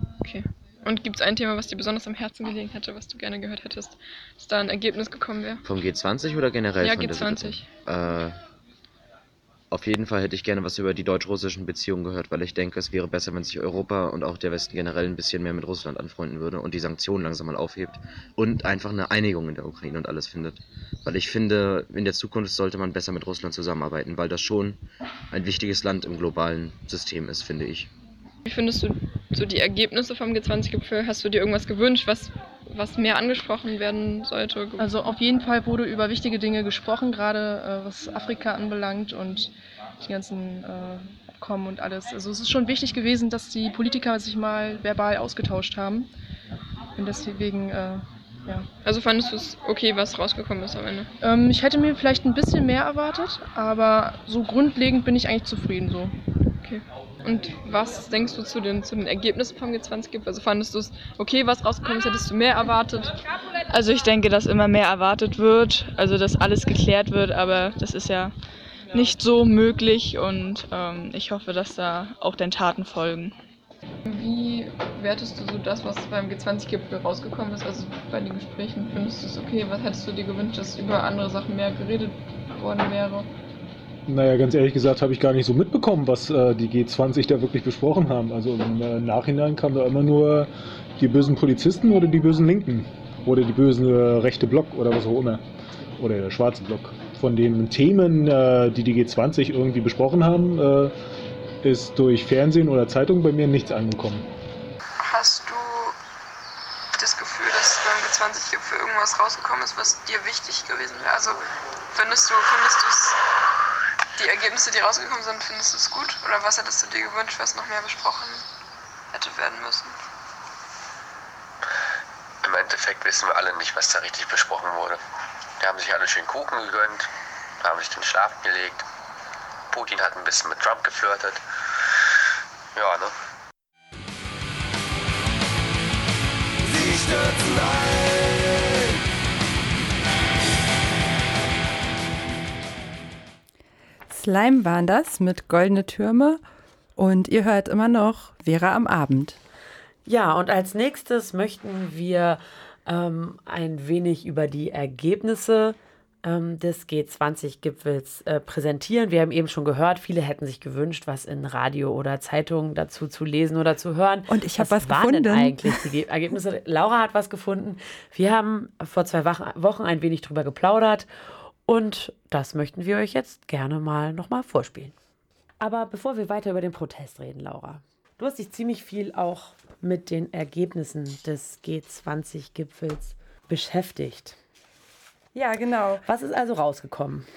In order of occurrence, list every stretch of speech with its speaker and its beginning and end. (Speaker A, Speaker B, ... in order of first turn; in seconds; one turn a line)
Speaker A: 0.2-5.6
Speaker B: 5.6-8.4
Speaker A: 6.8-7.7
Speaker B: 9.7-24.8
Speaker B: 25.3-27.9
Speaker A: 28.5-34.8
Speaker C: 34.8-46.1
Speaker C: 47.0-48.7
Speaker A: 48.8-51.1
Speaker C: 51.2-56.1
Speaker A: 56.6-63.2
Speaker D: 63.7-68.3
Speaker D: 68.9-73.4
Speaker A: 74.1-83.3
Speaker E: 84.1-95.4
Speaker E: 96.0-100.9
Speaker E: 101.6-104.3
Speaker A: 105.0-106.0
Speaker A: 106.9-113.2
Speaker A: 114.2-118.4
Speaker A: 119.1-119.9
Speaker F: 122.4-125.0
Speaker F: 125.6-127.1
Speaker F: 127.6-128.8
Speaker F: 129.7-131.4
Speaker F: 132.8-133.1
Speaker G: 144.1-146.4
Speaker G: 147.0-149.4
Speaker H: 150.1-171.1
Speaker G: 164.3-165.9
Speaker H: 171.7-174.9
Speaker H: 175.6-184.4
Speaker G: 185.3-186.0
Speaker H: 186.1-187.3